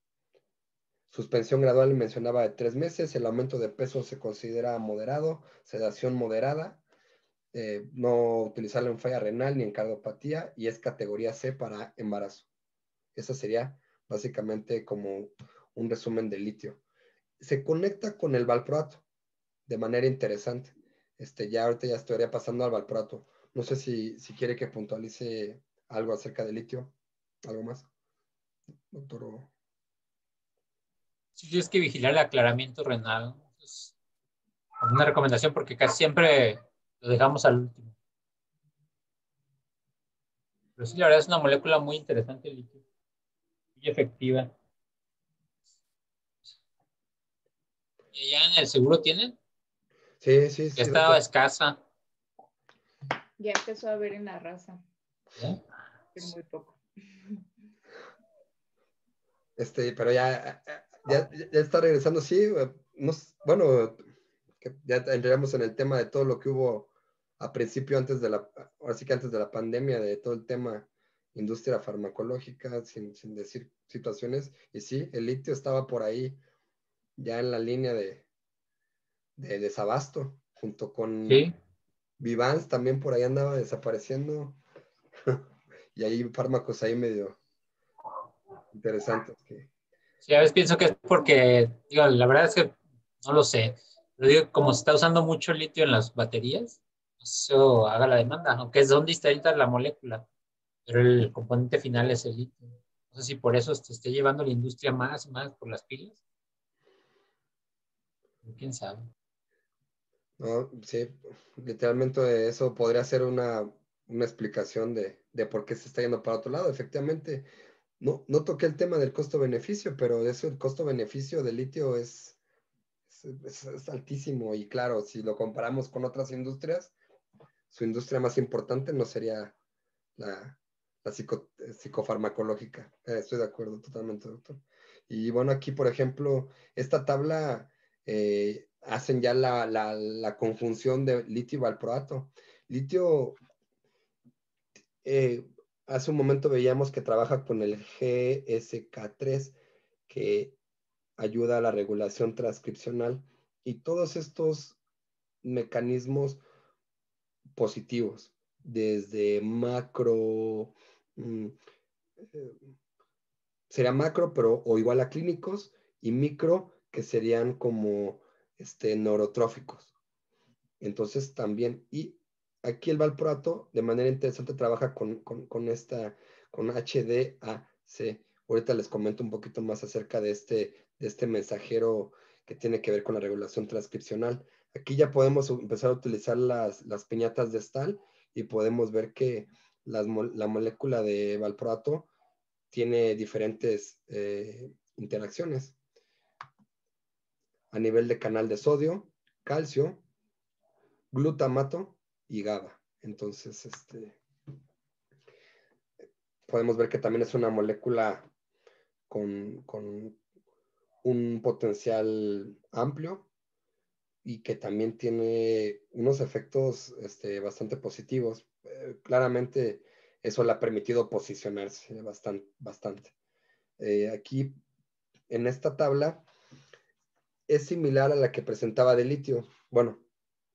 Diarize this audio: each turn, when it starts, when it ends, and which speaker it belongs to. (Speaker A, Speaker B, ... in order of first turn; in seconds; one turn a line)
Speaker A: 1.1-6.8
Speaker A: 7.5-12.5
Speaker A: 13.2-16.8
Speaker A: 17.4-19.0
Speaker A: 19.7-26.9
Speaker A: 27.5-27.9
Speaker A: 28.9-29.5
Speaker B: 31.4-33.9
Speaker B: 34.8-38.0
Speaker B: 40.8-42.8
Speaker B: 43.8-44.5
Speaker B: 48.1-49.4
Speaker A: 50.2-51.2
Speaker B: 50.8-51.8
Speaker C: 53.4-54.8
Speaker C: 56.1-57.4
Speaker A: 59.6-64.0
Speaker A: 64.6-76.4
Speaker A: 77.2-78.3
Speaker A: 79.4-81.5
Speaker B: 81.3-81.5
Speaker A: 82.2-84.6
Speaker A: 86.0-87.4
Speaker A: 88.7-89.7
Speaker B: 90.2-100.3
Speaker B: 100.9-106.2
Speaker B: 108.4-109.1
Speaker A: 110.4-117.5
Speaker A: 118.0-122.4
Speaker A: 123.1-126.9
Speaker A: 127.7-129.5
Speaker A: 130.2-143.4
Speaker A: 145.0-149.6
Speaker A: 150.1-150.6
Speaker A: 151.2-154.8
Speaker A: 155.4-156.4
Speaker A: 157.6-161.6
Speaker A: 163.7-169.9
Speaker A: 170.8-192.1
Speaker A: 192.7-195.8
Speaker A: 197.7-200.0
Speaker A: 201.1-204.2
Speaker A: 206.5-208.3
Speaker A: 209.1-210.2
Speaker A: 211.0-213.3
Speaker A: 214.2-223.1
Speaker A: 223.8-224.6
Speaker A: 225.3-226.2
Speaker A: 227.5-230.0